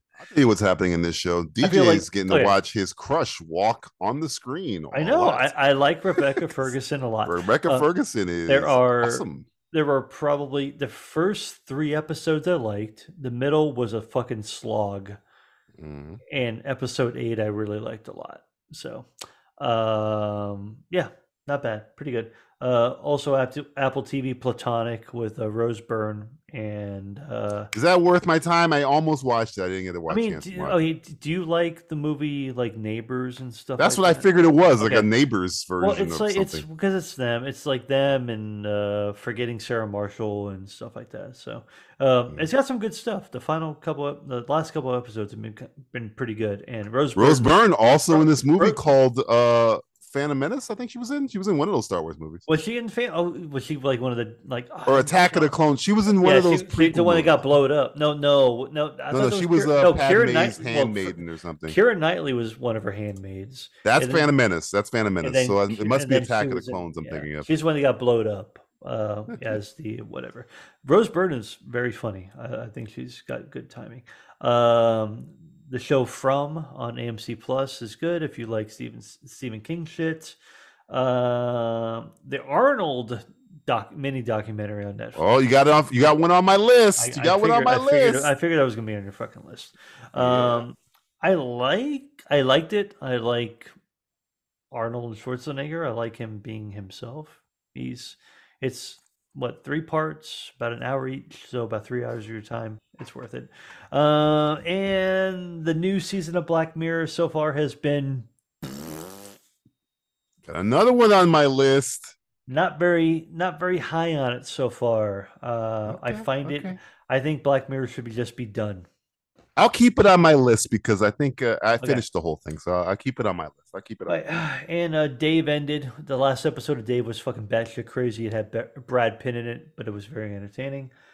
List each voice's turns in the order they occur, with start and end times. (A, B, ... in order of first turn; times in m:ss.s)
0:00.2-0:05.5 A
0:01.6-0:02.6 B
0:04.9-0:07.9 B
0:07.2-0:09.5 A
0:08.5-0:15.2 B
0:15.8-0:16.2 A
0:16.3-0:27.7 B
0:27.7-0:30.8 A
0:30.1-0:35.1 B
0:33.8-0:36.6 A
0:35.8-0:47.5 B
0:47.2-0:52.5 A
0:48.1-0:48.8 B
0:52.5-0:55.5 B
0:54.9-0:57.4 A
0:56.1-1:04.3 B
0:59.1-1:01.8 A
1:03.8-1:07.5 A
1:05.2-1:20.4 B
1:20.9-1:25.2 B
1:25.2-1:28.3 A
1:27.0-1:33.7 B
1:30.2-1:30.6 A
1:34.7-1:48.3 B
1:50.5-1:52.1 A
1:52.5-1:58.9 B
1:55.9-1:56.8 A
1:59.6-2:04.2 A
2:04.1-2:10.9 B